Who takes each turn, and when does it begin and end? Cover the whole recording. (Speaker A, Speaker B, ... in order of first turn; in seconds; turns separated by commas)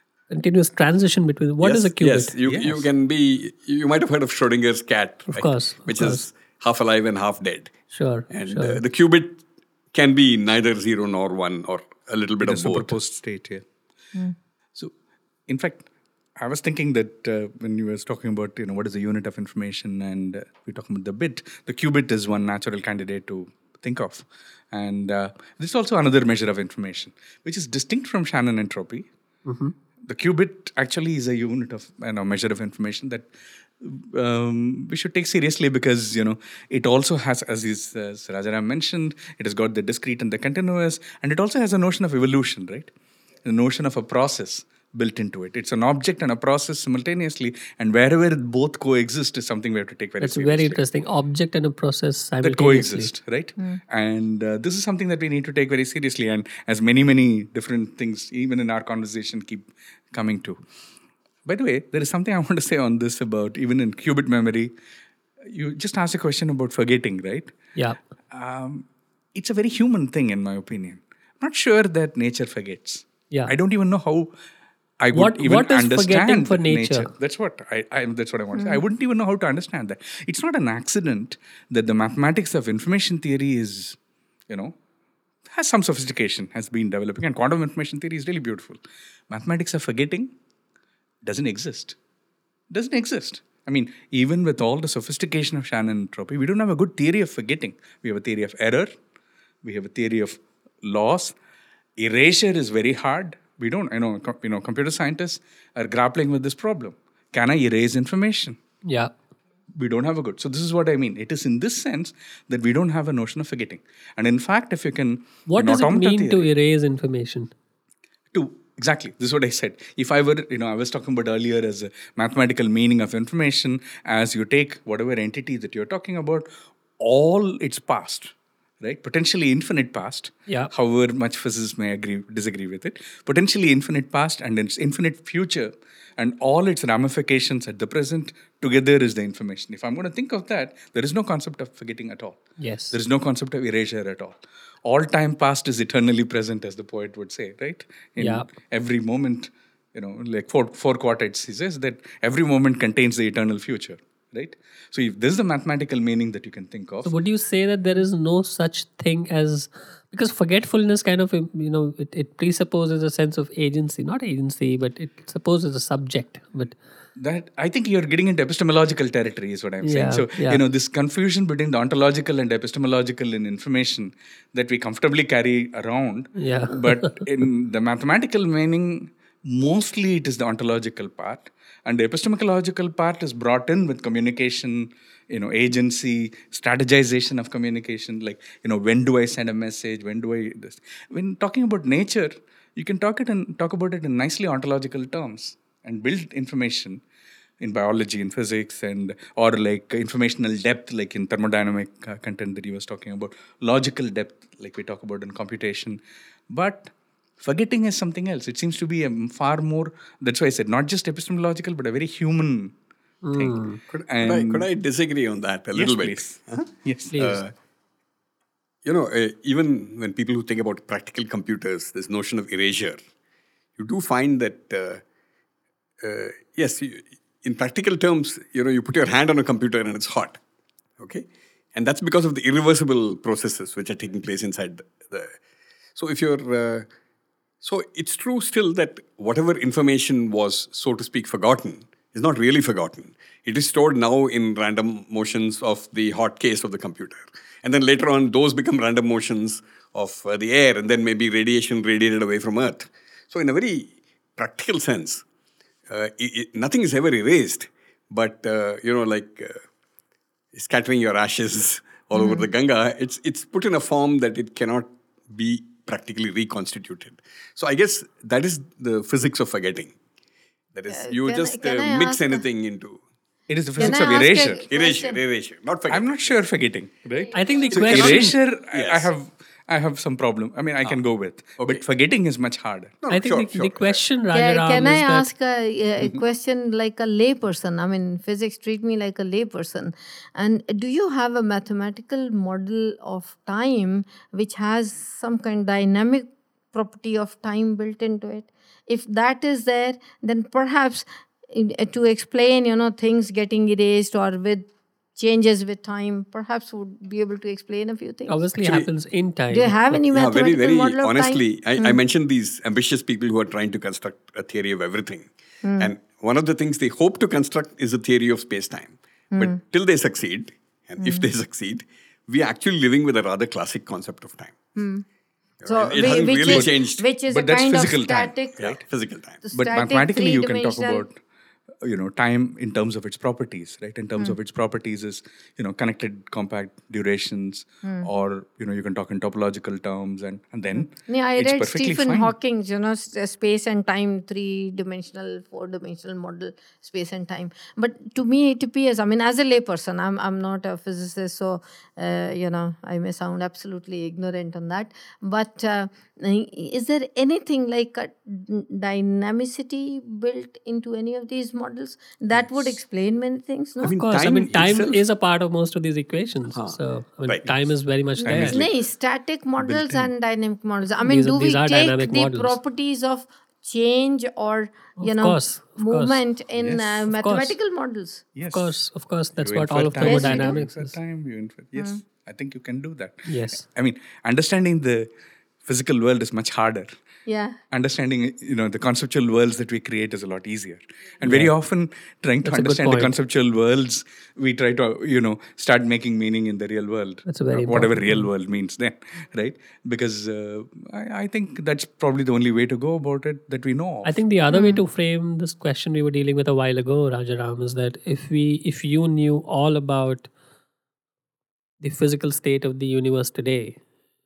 Speaker A: 0.3-2.3, Speaker B: 1.6-7.7, Speaker C: 2.4-2.9, Speaker A: 5.3-6.2, Speaker A: 7.9-8.8, Speaker B: 8.3-9.4, Speaker B: 9.9-12.9, Speaker C: 12.4-13.6, Speaker C: 15.5-15.8, Speaker C: 16.4-29.1, Speaker A: 29.4-29.7, Speaker C: 30.0-42.9, Speaker C: 43.4-50.8, Speaker A: 50.2-53.1, Speaker C: 52.4-60.6, Speaker C: 61.4-64.7, Speaker C: 65.4-67.5, Speaker C: 68.3-74.3, Speaker C: 75.0-84.0, Speaker A: 75.1-77.1, Speaker D: 78.5-78.8, Speaker C: 84.5-84.7, Speaker C: 85.5-90.3, Speaker C: 91.2-92.0, Speaker C: 92.7-98.9, Speaker C: 99.6-101.3, Speaker C: 102.0-108.6, Speaker A: 108.8-109.1, Speaker C: 109.7-116.5, Speaker A: 115.5-117.5, Speaker C: 118.3-126.5, Speaker C: 127.0-157.1, Speaker A: 142.6-143.0, Speaker A: 148.2-148.5, Speaker A: 157.0-166.8, Speaker C: 167.2-197.0, Speaker A: 169.8-170.6, Speaker A: 176.4-177.2, Speaker C: 197.6-212.7, Speaker A: 213.2-213.8, Speaker C: 213.3-214.7, Speaker B: 213.9-217.5, Speaker C: 215.7-217.2, Speaker A: 217.1-217.4, Speaker B: 218.8-223.0, Speaker B: 223.8-225.0, Speaker B: 226.0-230.4, Speaker B: 231.0-235.4, Speaker B: 235.9-236.9, Speaker B: 237.6-255.2, Speaker B: 255.9-259.6, Speaker B: 260.5-269.9, Speaker D: 262.1-262.5, Speaker B: 270.7-273.0, Speaker D: 270.9-272.4, Speaker C: 273.5-274.6, Speaker D: 273.8-275.2, Speaker B: 274.1-276.4, Speaker C: 275.9-282.9, Speaker A: 277.3-278.4, Speaker B: 277.7-279.1, Speaker B: 283.0-284.0, Speaker A: 283.1-285.3, Speaker D: 284.3-308.4, Speaker A: 308.3-310.0, Speaker B: 308.6-308.9, Speaker D: 309.5-312.0, Speaker B: 310.1-324.5, Speaker D: 315.6-315.9, Speaker D: 319.3-319.6, Speaker D: 321.0-321.2, Speaker D: 324.8-325.0, Speaker B: 325.6-327.1, Speaker D: 325.6-328.7, Speaker C: 326.4-326.7, Speaker C: 327.3-328.8, Speaker B: 328.6-329.4, Speaker D: 329.4-331.1, Speaker C: 329.5-331.2, Speaker C: 331.8-342.3, Speaker D: 337.8-338.1, Speaker D: 340.9-364.0, Speaker A: 363.8-368.6, Speaker B: 363.8-365.0, Speaker B: 366.5-367.6, Speaker D: 368.2-378.2, Speaker C: 368.2-368.7, Speaker C: 369.6-370.1, Speaker A: 371.0-372.6, Speaker A: 375.0-376.2, Speaker C: 376.6-377.1, Speaker A: 377.1-377.6, Speaker C: 378.3-378.7, Speaker A: 378.4-380.9, Speaker C: 379.4-385.1, Speaker D: 380.0-380.6, Speaker A: 383.3-383.6, Speaker C: 385.6-387.0, Speaker D: 387.2-387.6, Speaker C: 387.7-404.2, Speaker A: 391.2-391.5, Speaker A: 392.4-393.1, Speaker A: 397.3-398.2, Speaker A: 404.0-410.3, Speaker D: 404.5-404.8, Speaker A: 411.8-413.8